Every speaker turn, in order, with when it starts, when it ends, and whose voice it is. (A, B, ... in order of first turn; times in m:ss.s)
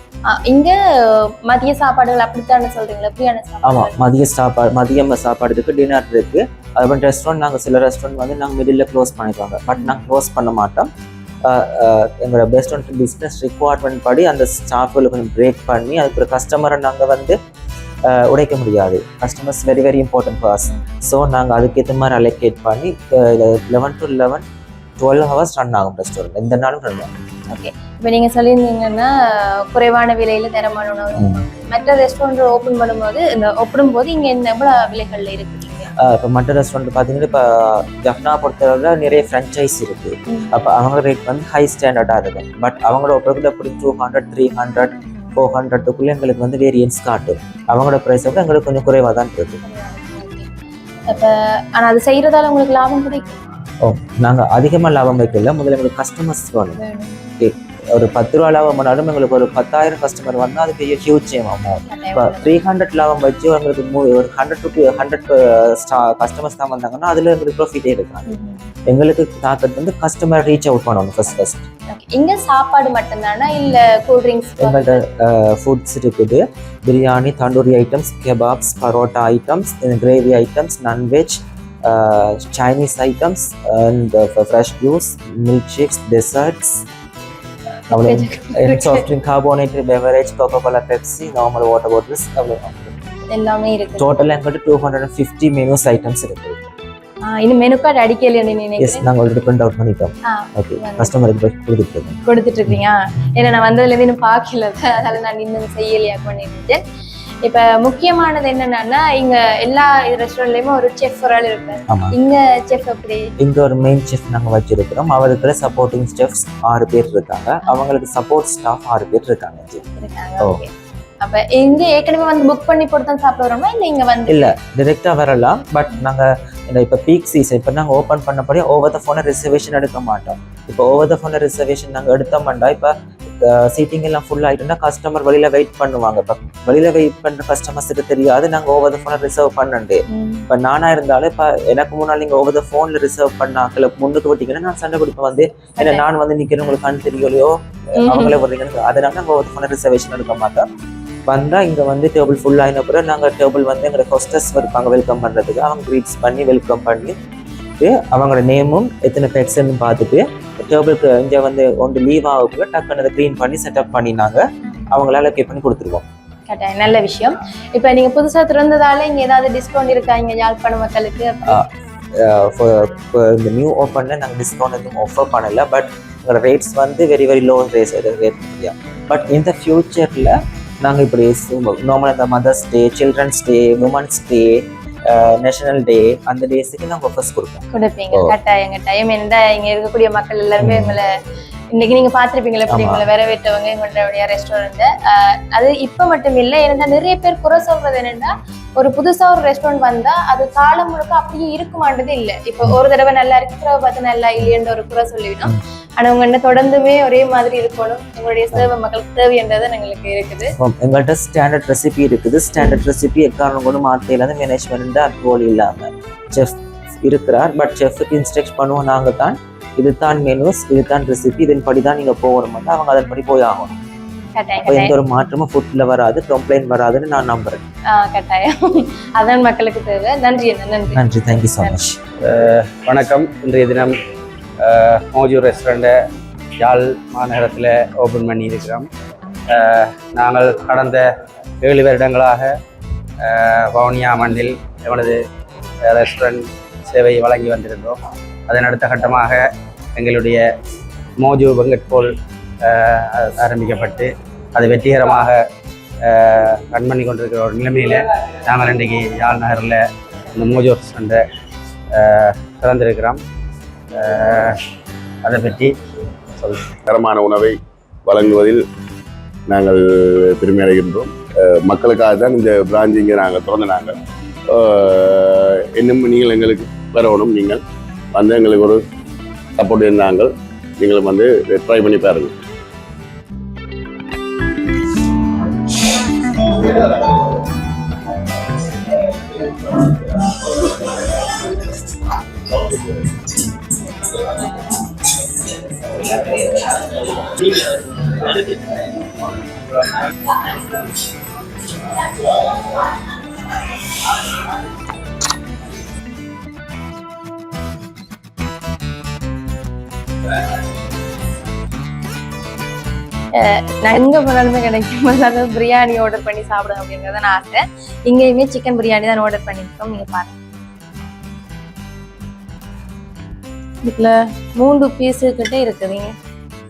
0:00.2-0:04.0 A
0:03.6-0:10.9 B
0:11.4-0:17.3 B
0:18.1-0:24.4 B
0:25.0-0:27.1 B
0:27.5-0:35.9 A
0:31.2-0:31.4 B
0:36.0-0:49.6 B
0:40.3-0:40.6 A
0:49.6-0:50.5 A
0:51.1-0:53.5 A
0:53.8-0:56.8 B
0:56.8-0:57.2 A
0:57.4-1:08.3 B
1:01.9-1:02.5 A
1:08.3-1:08.7 A
1:08.9-1:11.6 B
1:11.9-1:15.0 A
1:14.6-1:26.8 B
1:27.9-1:33.0 B
1:27.9-1:29.0 A
1:33.3-1:34.1 A
1:34.0-1:36.7 B
1:37.2-1:39.0 A
1:38.8-1:42.2 B
1:40.3-1:41.1 A
1:42.2-1:46.8 A
1:47.4-1:53.2 A
1:51.9-1:52.1 B
1:53.4-1:59.8 B
1:59.9-2:00.7 A
2:01.2-2:04.5 A
2:04.3-2:30.6 B
2:20.1-2:20.5 A
2:28.0-2:28.4 A
2:31.3-2:37.1 B
2:37.8-2:46.0 B
2:46.5-2:51.6 A
2:52.2-3:08.4 B
3:07.7-3:11.1 A
3:10.6-3:11.0 B
3:11.7-3:30.5 A
3:12.7-3:13.1 B
3:30.6-3:43.8 B
3:44.3-3:44.9 A
3:44.6-3:47.6 B
3:47.9-3:51.0 A
3:50.9-3:52.0 B
3:52.2-3:53.9 C
3:54.6-3:55.9 C
3:56.6-3:58.9 C
3:59.5-4:01.1 C
4:01.6-4:02.5 C
4:03.2-4:05.2 C
4:05.8-4:10.5 C
4:11.2-4:12.1 C
4:12.6-4:15.4 C
4:16.0-4:21.2 C
4:21.9-4:23.2 C
4:24.0-4:24.6 C
4:25.2-4:25.7 C
4:26.4-4:26.7 C
4:26.8-4:28.6 D
4:29.5-4:33.9 D
4:34.5-4:37.6 D
4:38.1-4:38.8 D
4:39.6-4:42.3 D
5:13.3-5:20.4 A
5:23.8-5:26.1 A